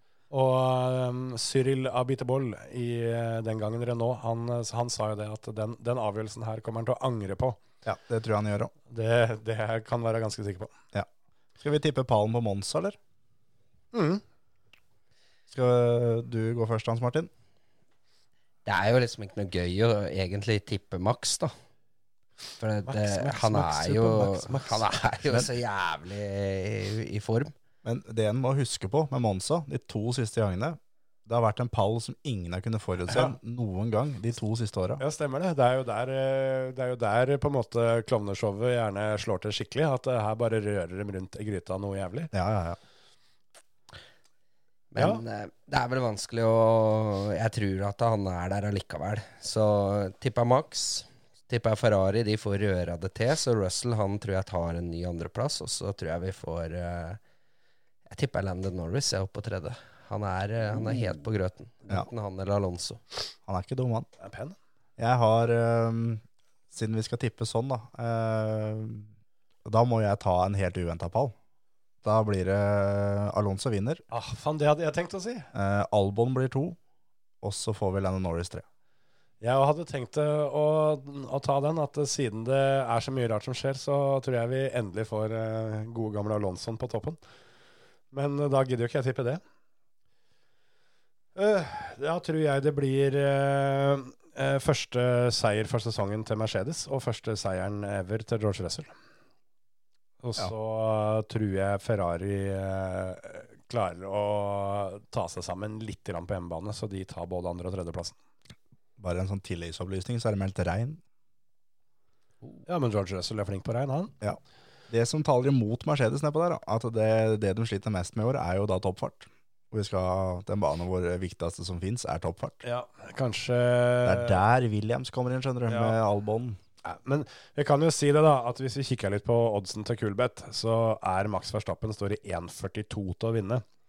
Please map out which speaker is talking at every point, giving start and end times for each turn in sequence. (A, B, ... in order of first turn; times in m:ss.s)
0:00.3-0:07.6 A
0:07.8-0:08.7 B
0:08.9-0:10.7 A
0:11.6-0:13.0 B
0:13.9-0:14.2 A
0:15.5-0:17.3 B
0:18.6-0:21.5 C
0:22.6-0:27.5 C
0:22.8-0:24.8 A
0:27.8-0:35.0 B
0:35.0-0:42.3 A
0:42.3-0:42.8 B
0:44.9-0:57.2 C
0:45.0-0:45.2 A
0:58.1-1:03.0 C
1:03.5-1:04.1 B
1:04.2-1:04.6 A
1:05.0-1:09.1 B
1:09.6-1:11.3 B
1:12.0-1:14.0 B
1:14.1-1:15.5 A
1:15.5-1:16.8 B
1:17.4-1:18.6 B
1:19.4-1:27.2 A
1:28.1-1:29.4 A
1:31.4-1:38.9 A
1:40.2-1:48.2 A
1:49.0-1:51.0 B
1:52.6-1:54.1 A
1:54.9-2:02.6 B
2:02.6-2:04.4 A
2:04.0-2:06.6 B
2:05.7-2:06.0 A
2:06.8-2:13.6 A